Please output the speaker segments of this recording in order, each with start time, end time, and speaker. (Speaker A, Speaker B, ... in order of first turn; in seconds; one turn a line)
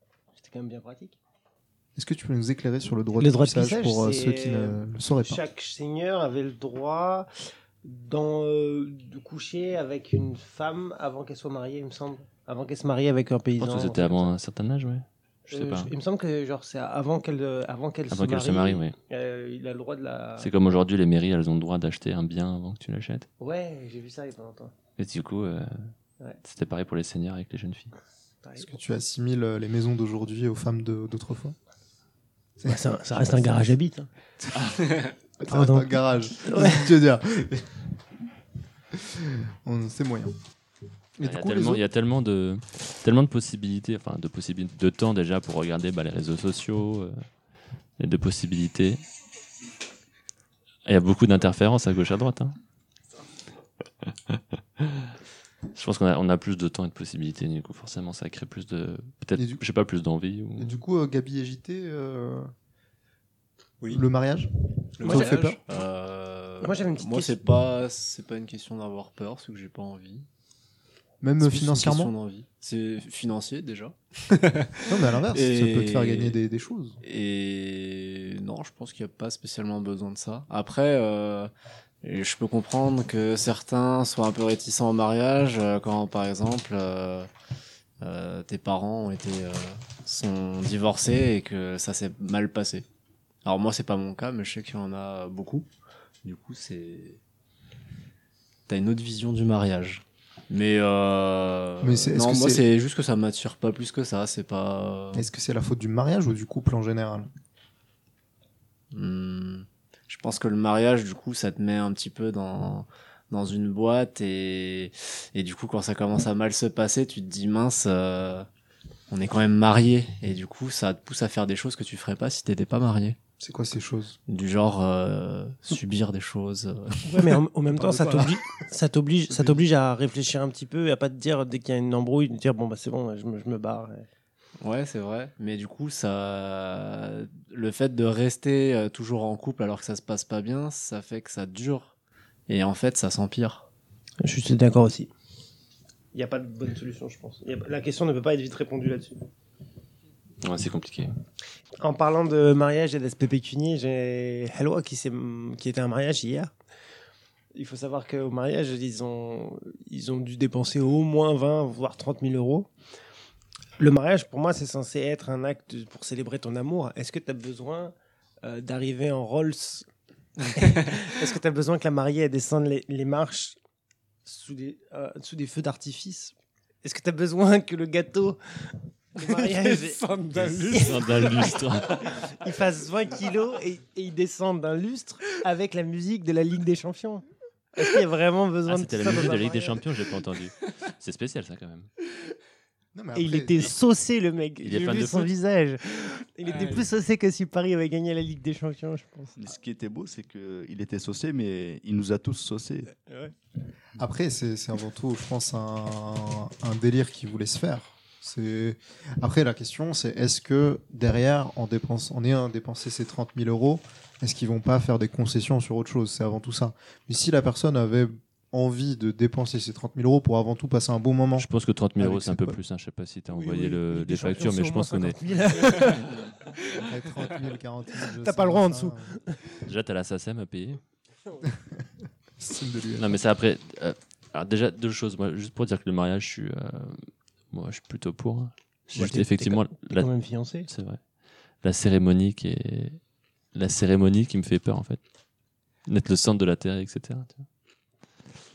Speaker A: 0.3-1.2
Speaker B: 1.9-5.4
Speaker A: 3.2-7.3
Speaker A: 7.8-14.3
Speaker C: 13.6-15.9
Speaker A: 15.5-20.5
Speaker C: 18.1-18.9
Speaker C: 20.4-23.3
Speaker A: 23.4-24.7
Speaker C: 25.0-25.9
Speaker C: 26.4-27.9
Speaker A: 28.4-28.7
Speaker B: 28.6-31.6
Speaker B: 32.6-33.7
Speaker A: 32.6-34.1
Speaker B: 35.4-37.9
Speaker A: 35.4-36.9
Speaker B: 38.9-40.4
Speaker B: 41.2-41.8
Speaker C: 41.2-47.2
Speaker C: 48.0-49.0
Speaker C: 50.9-52.6
Speaker C: 54.3-55.1
Speaker C: 55.7-60.8
Speaker B: 59.4-59.6
Speaker B: 60.6-62.5
Speaker B: 63.9-65.6
Speaker D: 65.0-70.2
Speaker A: 65.0-65.4
Speaker A: 66.6-67.4
Speaker B: 71.2-72.1
Speaker D: 71.4-76.4
Speaker B: 74.9-77.0
Speaker D: 77.0-81.5
Speaker D: 82.0-87.3
Speaker D: 88.0-92.8
Speaker D: 93.4-95.7
Speaker D: 96.2-97.2
Speaker D: 98.7-105.3
Speaker B: 101.8-102.7
Speaker B: 105.1-107.3
Speaker D: 108.9-118.5
Speaker D: 119.1-123.2
Speaker B: 123.4-124.2
Speaker D: 124.3-127.4
Speaker A: 127.0-134.1
Speaker B: 127.8-128.5
Speaker B: 129.3-129.6
Speaker D: 134.6-141.9
Speaker D: 142.5-143.7
Speaker A: 144.2-145.1
Speaker A: 146.1-149.2
Speaker C: 150.4-151.1
Speaker A: 151.8-156.5
Speaker A: 157.5-162.7
Speaker A: 163.8-169.9
Speaker A: 170.5-173.6
Speaker D: 170.6-171.1
Speaker A: 174.2-187.2
Speaker D: 179.2-180.9
Speaker C: 180.8-182.2
Speaker A: 187.8-189.8
Speaker C: 188.7-191.9
Speaker B: 192.9-193.7
Speaker A: 193.1-199.4
Speaker C: 194.6-195.3
Speaker D: 196.4-196.9
Speaker E: 199.4-202.9
Speaker A: 202.9-203.3
Speaker B: 204.0-221.5
Speaker C: 221.4-225.2
Speaker B: 222.0-222.6
Speaker A: 223.3-226.2
Speaker B: 226.7-229.1
Speaker A: 228.2-229.4
Speaker C: 229.6-230.8
Speaker B: 232.4-233.2
Speaker C: 233.0-240.1
Speaker A: 238.9-240.7
Speaker C: 240.7-241.0
Speaker C: 241.6-243.0
Speaker C: 243.5-245.0
Speaker C: 245.9-247.4